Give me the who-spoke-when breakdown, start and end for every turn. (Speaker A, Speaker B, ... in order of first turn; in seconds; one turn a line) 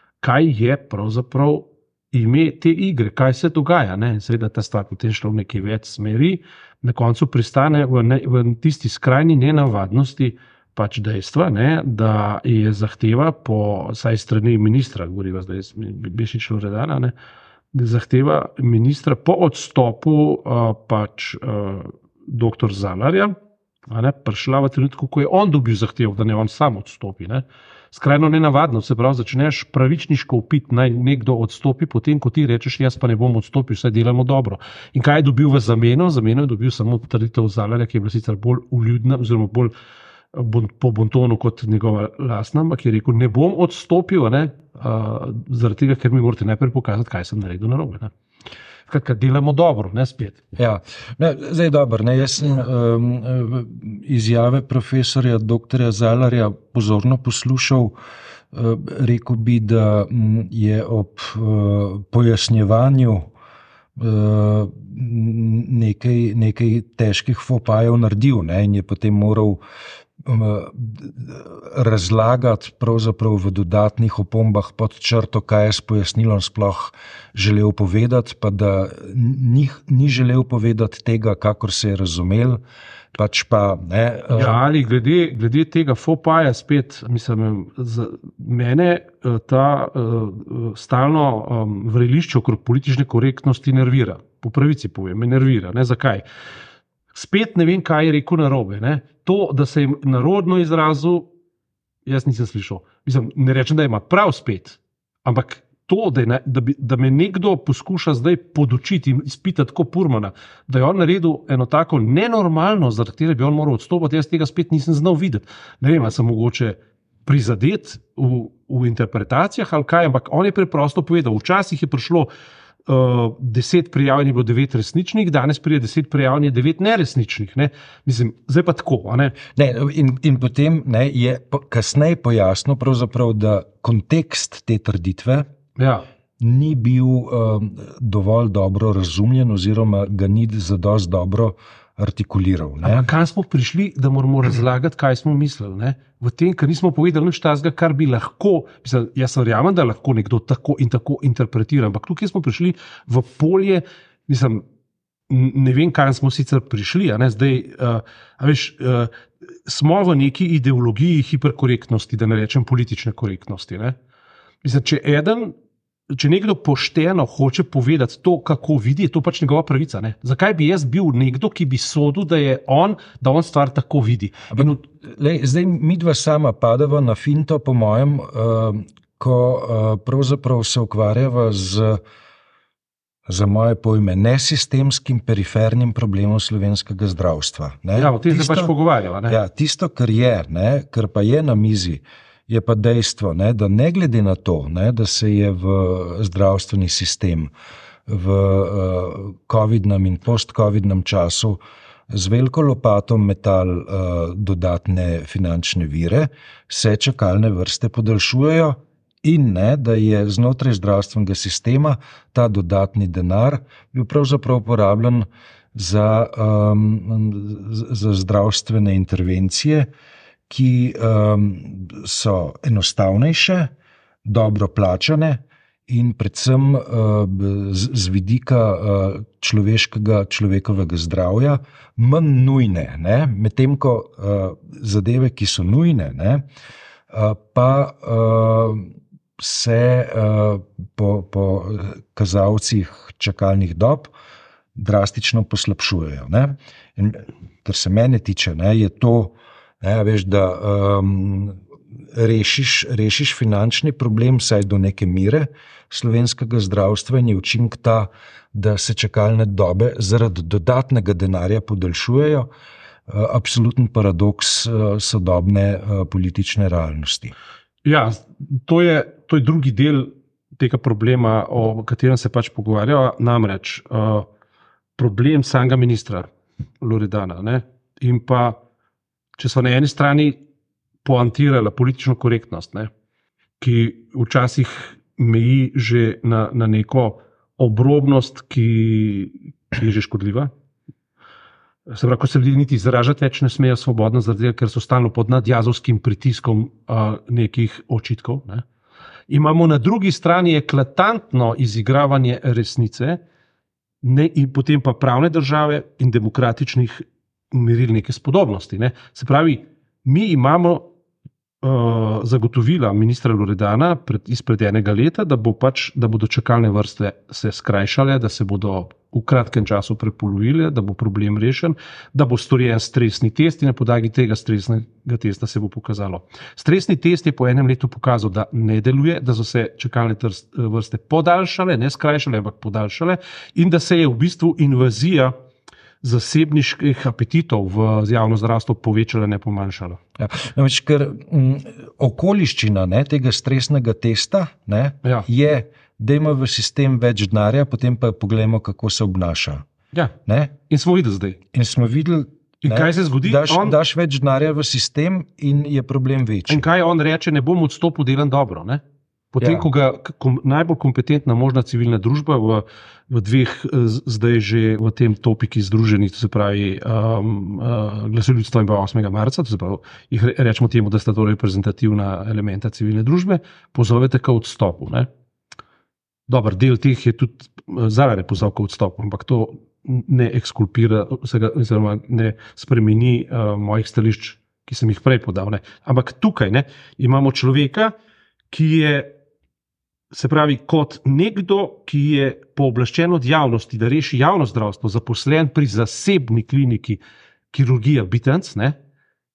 Speaker A: 0.2-17.1
Speaker A: 17.7-23.4
Speaker A: 23.9-39.7
Speaker A: 40.3-48.1
Speaker A: 48.9-50.4
Speaker B: 50.6-58.0
Speaker B: 58.5-63.3
Speaker B: 64.0-69.6
Speaker B: 70.2-82.6
Speaker B: 83.1-84.6
Speaker A: 84.3-96.2
Speaker A: 97.1-101.3
Speaker A: 102.0-122.3
Speaker A: 122.9-129.4
Speaker B: 129.5-135.5
Speaker A: 135.8-136.1
Speaker B: 136.4-143.1
Speaker A: 142.8-154.6
Speaker A: 155.3-159.1
Speaker A: 159.7-164.0
Speaker A: 164.6-165.6
Speaker A: 166.1-174.8
Speaker B: 174.5-182.0
Speaker B: 183.3-188.7
Speaker A: 187.9-189.4
Speaker B: 189.3-197.5
Speaker B: 198.1-219.9
Speaker B: 220.5-223.7
Speaker B: 224.2-236.5
Speaker B: 237.1-244.1
Speaker B: 244.8-251.6
Speaker B: 252.1-262.5
Speaker B: 263.1-267.3
Speaker A: 267.9-274.3
Speaker A: 275.0-276.3
Speaker A: 276.8-278.6
Speaker A: 279.4-280.4
Speaker A: 281.0-282.9
Speaker A: 283.6-290.5
Speaker A: 291.9-298.6
Speaker A: 299.3-303.2
Speaker A: 304.0-310.9
Speaker A: 311.6-335.3
Speaker A: 336.0-340.0
Speaker B: 340.2-349.6
Speaker B: 350.3-350.5
Speaker A: 350.7-351.4
Speaker B: 351.5-356.6
Speaker A: 352.6-353.8
Speaker A: 356.5-358.8
Speaker A: 359.3-375.1
Speaker B: 359.4-359.7
Speaker A: 376.3-387.9
Speaker A: 388.5-389.1
Speaker A: 390.1-397.0
Speaker A: 397.5-398.8